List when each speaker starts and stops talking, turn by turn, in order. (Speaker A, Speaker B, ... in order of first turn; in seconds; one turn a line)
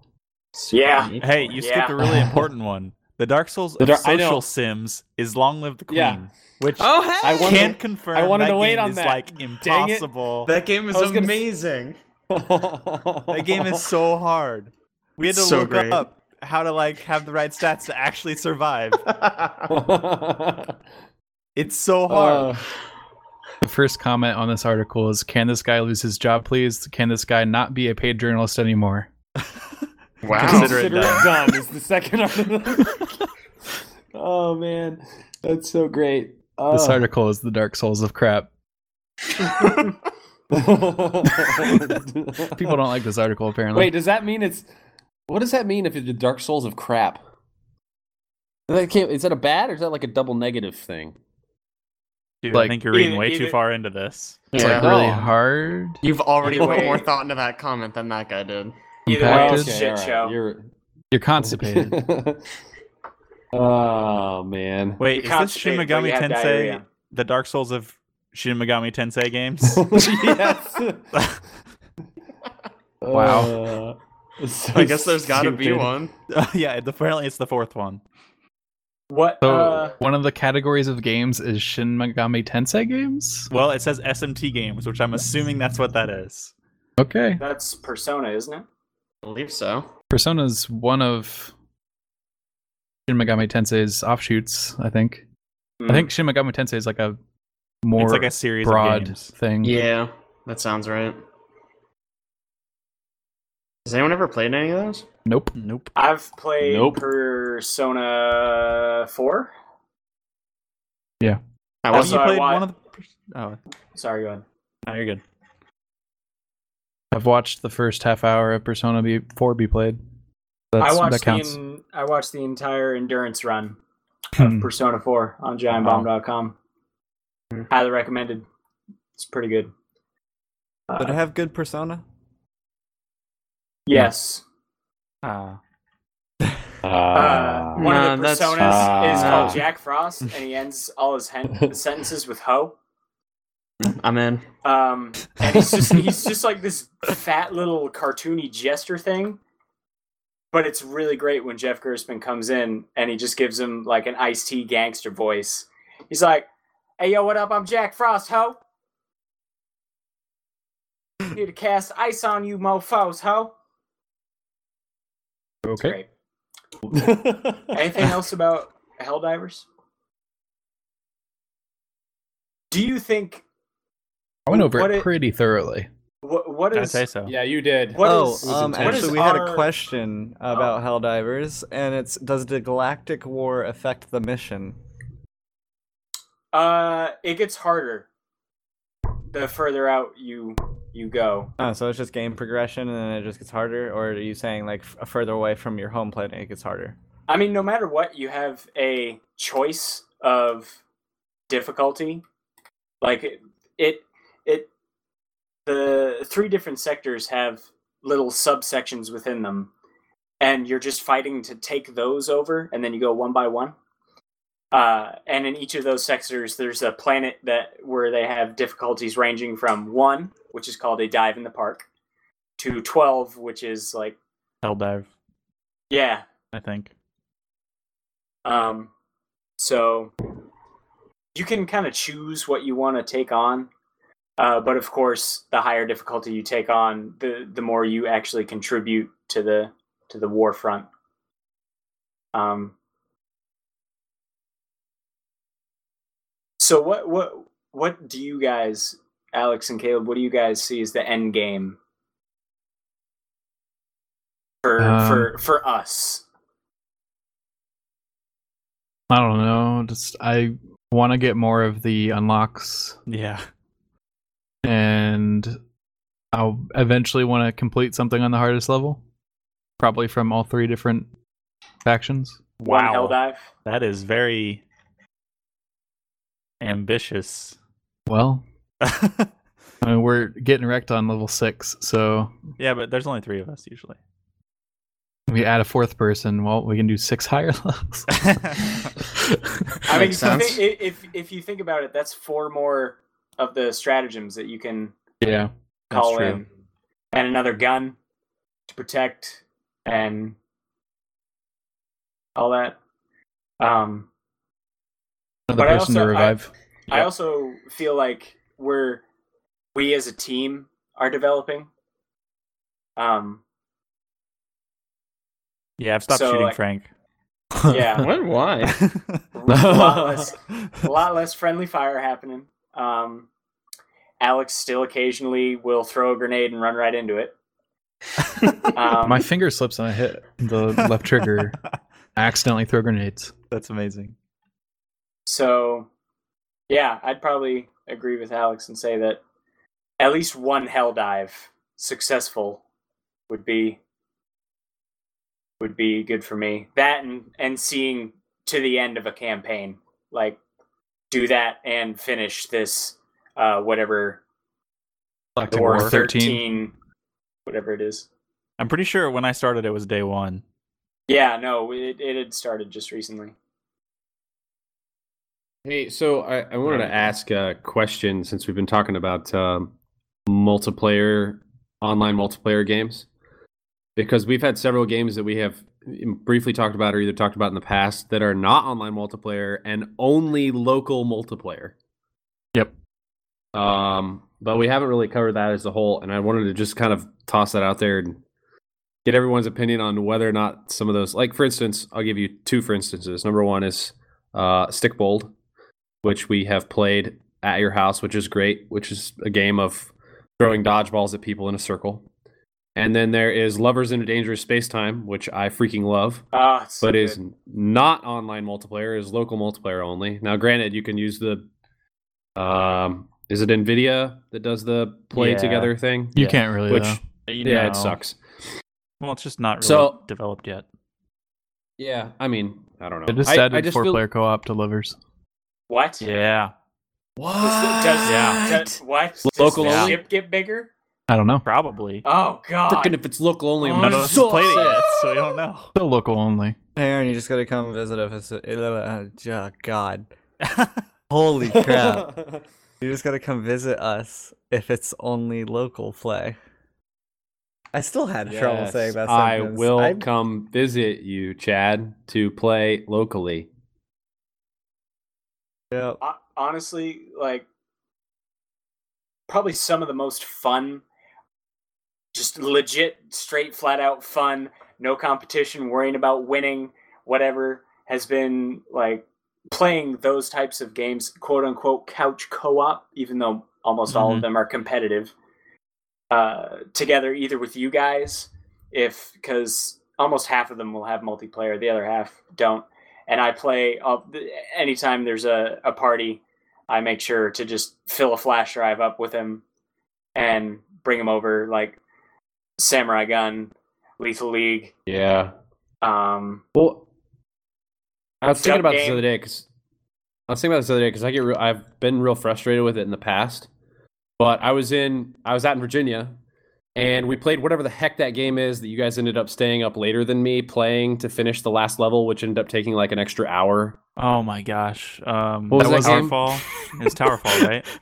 Speaker A: 0.7-1.9
Speaker B: 0.9-1.3
Speaker C: 1.2-10.5
Speaker D: 2.0-2.5
Speaker D: 3.8-4.4
Speaker D: 5.9-6.2
Speaker B: 6.8-7.8
Speaker D: 7.2-10.1
Speaker B: 10.5-12.0
Speaker D: 10.9-11.4
Speaker D: 12.3-13.9
Speaker C: 13.3-19.0
Speaker B: 15.7-16.0
Speaker B: 19.1-19.7
Speaker D: 19.7-20.7
Speaker C: 21.6-22.6
Speaker D: 22.1-22.7
Speaker E: 23.6-29.1
Speaker B: 30.2-30.9
Speaker D: 30.3-33.1
Speaker E: 30.4-31.3
Speaker D: 34.1-37.1
Speaker E: 36.7-38.5
Speaker D: 40.5-42.8
Speaker E: 41.4-41.8
Speaker E: 42.5-43.9
Speaker D: 43.7-44.7
Speaker D: 45.3-47.2
Speaker D: 48.7-51.2
Speaker C: 52.4-54.5
Speaker A: 52.9-53.6
Speaker B: 54.5-55.1
Speaker E: 54.6-56.0
Speaker D: 54.6-55.3
Speaker B: 56.0-58.7
Speaker A: 56.5-57.1
Speaker E: 59.1-59.8
Speaker A: 59.1-60.4
Speaker D: 59.3-60.6
Speaker E: 61.1-62.0
Speaker D: 61.4-62.4
Speaker D: 63.5-65.0
Speaker C: 65.0-70.0
Speaker A: 65.1-66.8
Speaker D: 69.7-71.1
Speaker C: 71.1-71.4
Speaker D: 73.0-75.9
Speaker E: 73.1-73.5
Speaker B: 74.7-76.1
Speaker C: 76.3-78.0
Speaker A: 79.1-80.0
Speaker E: 79.4-83.5
Speaker C: 83.5-86.5
Speaker E: 87.0-87.4
Speaker A: 87.4-88.7
Speaker B: 89.2-89.9
Speaker E: 90.1-91.5
Speaker E: 93.1-95.2
Speaker A: 95.8-96.1
Speaker E: 95.9-97.2
Speaker E: 97.8-99.8
Speaker C: 98.0-99.2
Speaker B: 99.6-101.2
Speaker B: 103.8-105.0
Speaker E: 105.3-105.5
Speaker C: 105.6-105.9
Speaker A: 106.0-109.5
Speaker D: 106.6-107.0
Speaker B: 111.8-112.2
Speaker A: 111.9-112.7
Speaker C: 111.9-113.6
Speaker A: 114.0-114.4
Speaker C: 114.9-115.2
Speaker E: 117.1-120.0
Speaker E: 120.7-121.6
Speaker A: 120.8-123.8
Speaker E: 124.4-124.7
Speaker A: 124.4-126.5
Speaker C: 125.8-126.1
Speaker A: 127.7-128.4
Speaker A: 129.2-129.7
Speaker A: 130.9-131.2
Speaker F: 131.0-132.0
Speaker A: 133.9-134.4
Speaker C: 135.2-135.6
Speaker D: 136.8-137.9
Speaker A: 137.1-142.7
Speaker B: 137.8-139.6
Speaker D: 138.6-139.6
Speaker B: 143.8-144.4
Speaker A: 144.6-149.4
Speaker A: 150.5-156.5
Speaker A: 157.0-158.6
Speaker A: 161.3-163.5
Speaker E: 165.7-166.0
Speaker A: 165.8-166.1
Speaker D: 166.9-168.1
Speaker A: 167.7-169.7
Speaker A: 172.7-173.4
Speaker E: 174.5-175.9
Speaker A: 174.5-175.1
Speaker A: 176.2-177.0
Speaker C: 176.8-177.3
Speaker D: 177.3-179.3
Speaker A: 177.9-179.7
Speaker F: 178.0-184.8
Speaker A: 186.5-188.1
Speaker A: 189.3-191.5
Speaker F: 191.6-197.0
Speaker A: 197.3-200.8
Speaker A: 201.5-202.2
Speaker A: 203.0-204.7
Speaker A: 205.7-209.7
Speaker A: 210.4-213.8
Speaker A: 214.7-221.8
Speaker A: 222.6-224.2
Speaker C: 224.6-225.1
Speaker A: 225.9-226.2
Speaker C: 226.5-226.9
Speaker A: 228.4-228.9
Speaker A: 229.6-230.1
Speaker A: 231.3-233.7
Speaker A: 234.4-240.9
Speaker A: 242.3-242.7
Speaker A: 246.6-251.8
Speaker A: 254.6-256.2
Speaker E: 254.8-255.3
Speaker E: 259.1-263.0
Speaker C: 263.1-263.4
Speaker E: 264.6-265.6
Speaker E: 266.3-269.0
Speaker E: 269.8-271.1
Speaker E: 271.9-272.4
Speaker C: 272.6-274.6
Speaker A: 272.6-273.5
Speaker C: 276.6-277.6
Speaker E: 278.1-278.4
Speaker C: 278.8-279.3
Speaker E: 279.8-282.3
Speaker C: 282.6-284.0
Speaker E: 285.3-288.1
Speaker C: 288.2-288.8
Speaker A: 289.9-294.9
Speaker B: 289.9-290.6
Speaker E: 295.2-296.4
Speaker A: 295.9-296.4
Speaker A: 297.1-298.0
Speaker A: 298.7-300.4
Speaker A: 302.4-302.8
Speaker A: 303.6-304.1
Speaker E: 305.5-306.5
Speaker A: 305.6-306.4
Speaker A: 306.9-309.0
Speaker A: 309.8-311.7
Speaker A: 313.0-313.4
Speaker C: 315.8-316.9
Speaker A: 316.1-316.6
Speaker A: 317.7-318.1
Speaker B: 318.0-318.8
Speaker C: 318.7-319.2
Speaker A: 319.3-323.3
Speaker D: 319.5-320.3
Speaker A: 324.2-327.3
Speaker A: 328.7-329.2
Speaker E: 329.0-331.6
Speaker C: 330.8-331.4
Speaker E: 332.2-333.3
Speaker C: 333.5-334.1
Speaker A: 335.3-335.9
Speaker A: 336.7-339.2
Speaker A: 340.0-342.6
Speaker A: 343.3-343.8
Speaker A: 345.6-350.4
Speaker A: 351.1-354.2
Speaker E: 355.4-356.4
Speaker A: 355.5-356.7
Speaker A: 357.5-358.1
Speaker C: 358.6-360.4
Speaker A: 361.1-363.3
Speaker D: 365.6-369.7
Speaker C: 366.6-367.1
Speaker D: 370.3-373.1
Speaker D: 374.0-381.7
Speaker D: 383.6-388.2
Speaker D: 389.1-395.3
Speaker D: 396.0-402.1
Speaker D: 402.8-406.3
Speaker A: 406.3-407.2
Speaker D: 406.8-411.5
Speaker D: 412.4-418.2
Speaker C: 415.1-415.7
Speaker E: 416.1-417.0
Speaker C: 417.3-418.0
Speaker C: 419.0-420.6
Speaker D: 419.6-420.0
Speaker D: 421.8-424.0
Speaker E: 423.1-425.0
Speaker A: 425.7-426.0
Speaker C: 426.0-426.5
Speaker D: 427.2-430.0
Speaker A: 427.4-430.7
Speaker C: 428.1-428.4
Speaker C: 429.6-430.0
Speaker E: 431.1-431.5
Speaker C: 431.5-432.1
Speaker A: 432.1-433.0
Speaker D: 432.7-435.3
Speaker A: 433.6-434.3
Speaker C: 433.6-435.7
Speaker E: 435.8-436.6
Speaker F: 436.8-440.1
Speaker C: 440.4-440.8
Speaker F: 441.1-442.1
Speaker D: 441.5-442.4
Speaker F: 442.8-446.4
Speaker F: 447.7-450.1
Speaker D: 448.3-453.5
Speaker F: 455.7-456.0
Speaker A: 456.0-457.4
Speaker A: 459.3-460.8
Speaker A: 462.1-475.1
Speaker C: 473.9-474.3
Speaker A: 476.1-489.4
Speaker A: 490.1-491.8
Speaker A: 492.6-494.7
Speaker D: 494.9-495.3
Speaker A: 495.8-496.4
Speaker D: 496.6-496.9
Speaker D: 498.2-499.5
Speaker A: 498.4-499.1
Speaker D: 500.3-503.5
Speaker D: 504.2-506.2
Speaker D: 506.8-513.8
Speaker C: 514.0-517.7
Speaker D: 515.5-516.1
Speaker E: 515.5-516.2